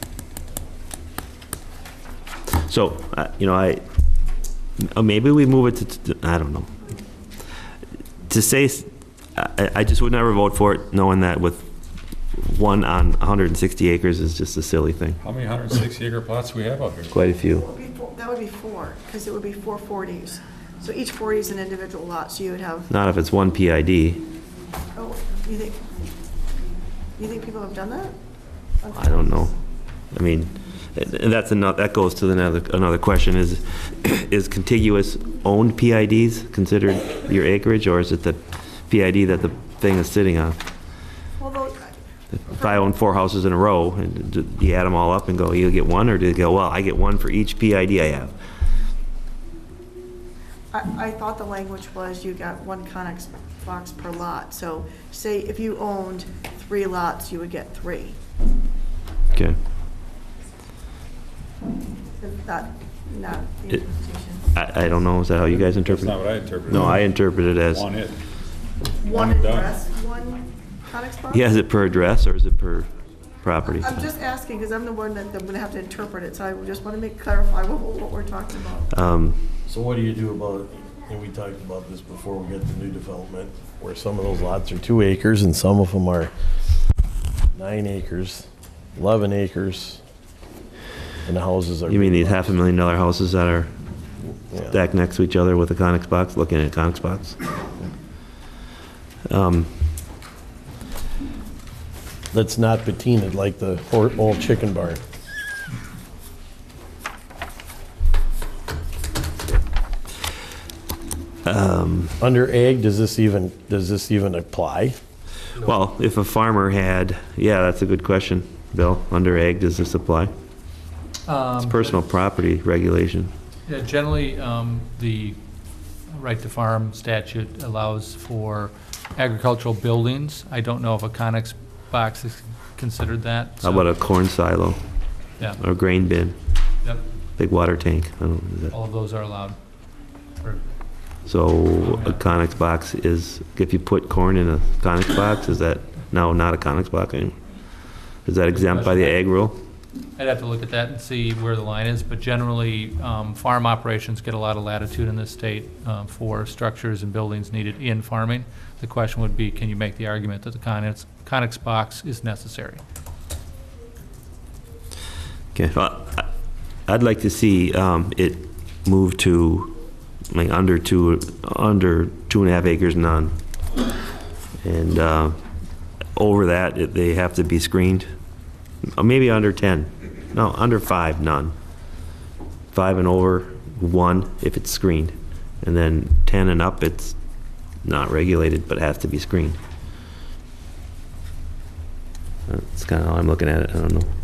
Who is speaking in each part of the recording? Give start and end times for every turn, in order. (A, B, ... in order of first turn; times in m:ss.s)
0:02.7-0:03.8 A
0:04.9-0:06.7 A
0:08.3-0:11.7 A
0:12.4-0:15.2 A
0:15.2-0:17.1 B
0:17.1-0:17.6 A
0:17.4-0:22.9 C
0:22.9-0:24.2 A
0:25.0-0:25.8 C
0:27.2-0:28.1 C
0:28.8-0:29.5 C
0:28.9-0:29.5 A
0:30.1-0:40.6 A
0:41.4-0:42.0 C
0:42.4-0:48.3 A
0:42.5-0:42.9 C
0:50.7-0:58.2 C
1:02.2-1:04.5 C
1:04.5-1:06.1 A
1:05.6-1:07.0 B
1:06.7-1:07.8 A
1:07.7-1:08.1 B
1:08.9-1:11.5 C
1:09.1-1:09.7 B
1:11.3-1:12.9 A
1:13.4-1:14.0 A
1:13.7-1:19.0 C
1:18.9-1:19.4 A
1:19.7-1:26.3 D
1:27.5-1:30.0 D
1:31.2-1:32.5 D
1:31.9-1:33.7 A
1:34.7-1:37.3 A
1:39.3-1:39.7 A
1:42.3-1:45.0 D
1:51.4-1:52.1 A
1:52.2-1:55.0 D
1:55.7-2:00.3 A
2:01.2-2:02.0 E
2:01.7-2:03.3 A
2:03.6-2:05.4 E
2:06.1-2:13.9 E
2:13.6-2:14.8 A
2:15.6-2:16.3 A
2:17.4-2:18.7 A
2:18.7-2:19.6 E
2:21.3-2:27.3 A
2:21.8-2:22.2 E
2:28.2-2:29.5 A
2:28.5-2:29.2 E
2:30.2-2:42.8 E
2:45.5-2:46.2 A
2:46.9-2:49.8 A
2:50.3-2:53.3 A
2:54.6-2:55.4 A
2:56.2-2:58.1 A
2:59.0-3:01.5 A
3:02.7-3:07.1 A
3:07.8-3:09.6 A
3:12.5-3:14.1 A